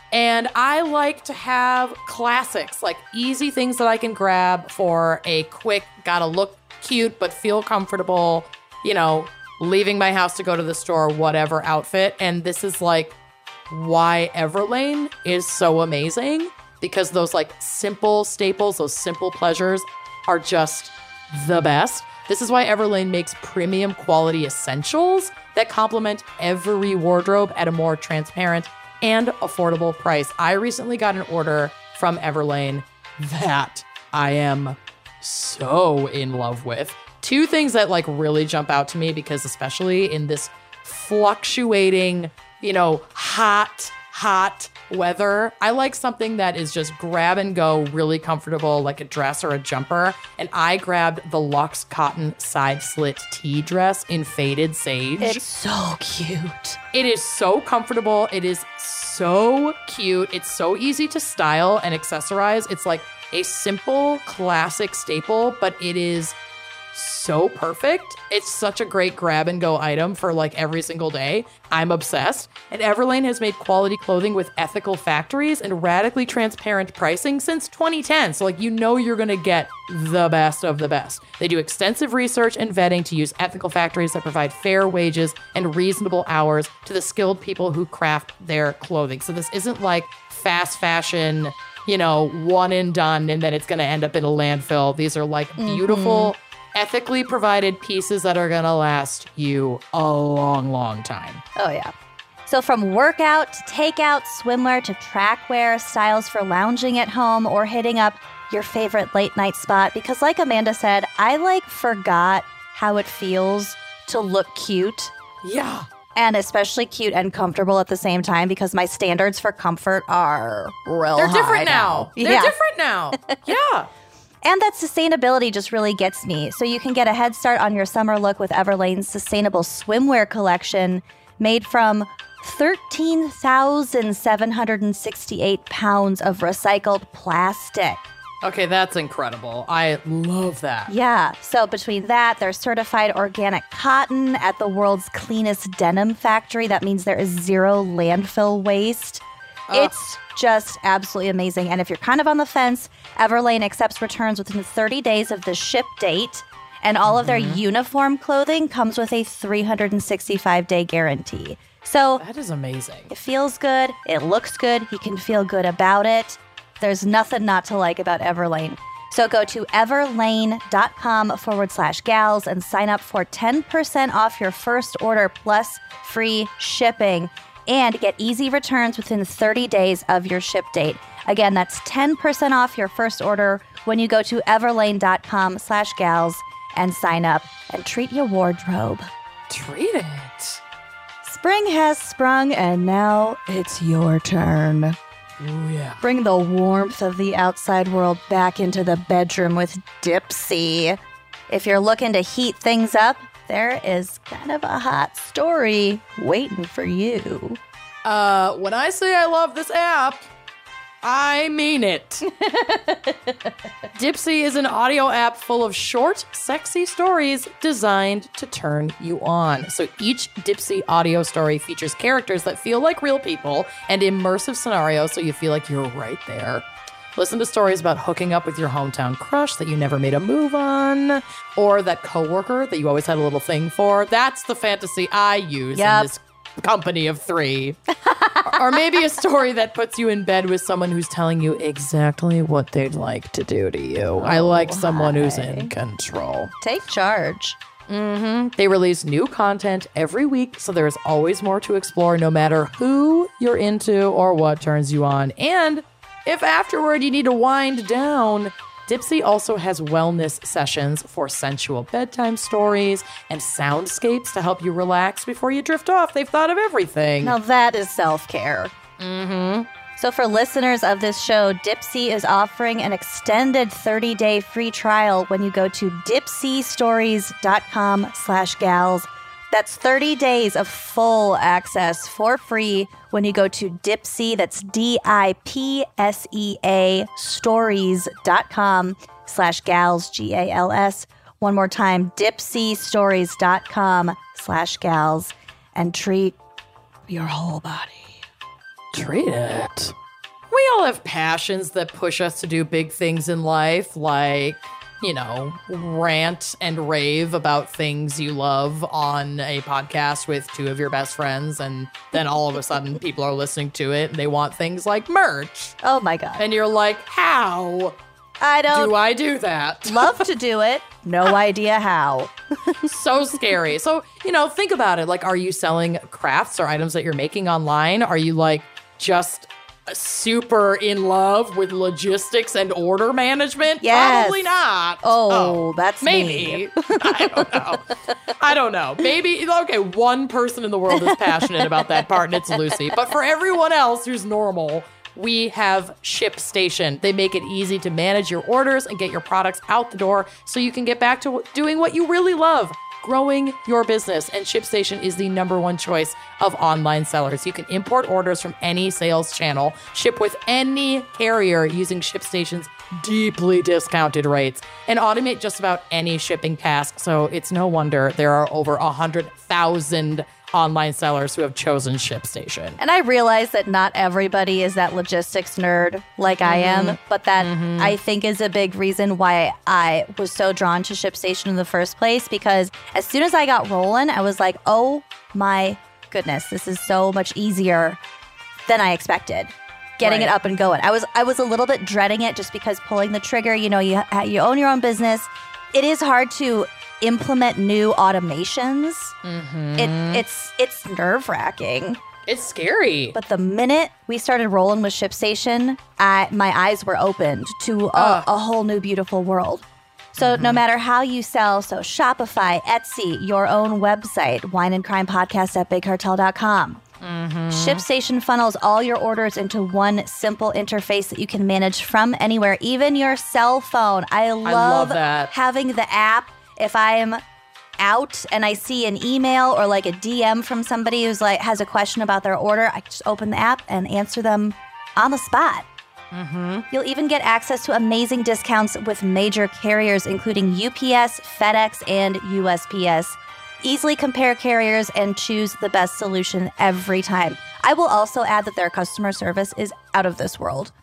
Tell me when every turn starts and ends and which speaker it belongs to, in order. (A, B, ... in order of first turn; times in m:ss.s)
0:00.1-0:13.2 A
0:13.7-0:55.4 A
0:55.2-0:56.8 B
0:56.9-1:06.4 A
1:06.9-1:41.4 A
1:35.6-1:36.3 B
1:41.6-1:41.9 B
1:42.4-1:55.1 B
1:55.4-1:55.9 A
1:56.1-2:02.6 B
2:01.2-2:03.9 A
2:03.1-2:03.4 B
2:04.4-2:18.0 B
2:18.4-2:20.9 A
2:20.9-2:42.2 B
2:37.1-2:37.6 A
2:42.2-2:43.1 A
2:43.1-3:09.1 B
3:09.5-3:10.6 A
3:11.2-3:15.0 B
3:15.4-3:16.0 A
3:16.0-3:21.0 B
3:21.5-3:27.6 B
3:28.0-3:30.2 A
3:31.0-3:32.3 A
3:33.9-3:46.6 A
3:47.2-3:57.8 A
3:55.7-3:56.1 B
3:58.1-3:58.8 B
3:58.4-4:06.5 A
4:04.2-4:05.7 B
4:06.6-4:07.6 B
4:07.9-4:27.4 A
4:27.2-4:28.7 B
4:29.0-4:29.7 A
4:30.0-4:56.4 B
4:57.1-4:58.2 B
4:58.9-4:59.9 A
5:00.5-5:15.8 A
5:15.8-5:16.4 B
5:16.4-5:18.0 A
5:18.4-5:18.9 B
5:18.7-5:20.3 A
5:19.9-5:22.9 B
5:22.8-6:12.8 A
5:33.8-5:34.5 B
5:35.0-5:37.8 B
5:40.9-5:41.9 B
6:12.8-6:28.0 B
6:16.4-6:18.0 A
6:28.7-6:39.1 B
6:30.0-6:30.3 A
6:39.2-6:40.2 A
6:39.8-6:42.0 B
6:42.3-6:43.2 A
6:43.1-6:56.8 B
6:47.9-6:48.3 A
6:50.2-6:50.6 A
6:57.0-6:57.8 A
6:57.5-7:07.2 B
7:04.4-7:05.3 A
7:07.8-7:15.7 B
7:16.1-7:16.7 A
7:16.7-7:30.7 B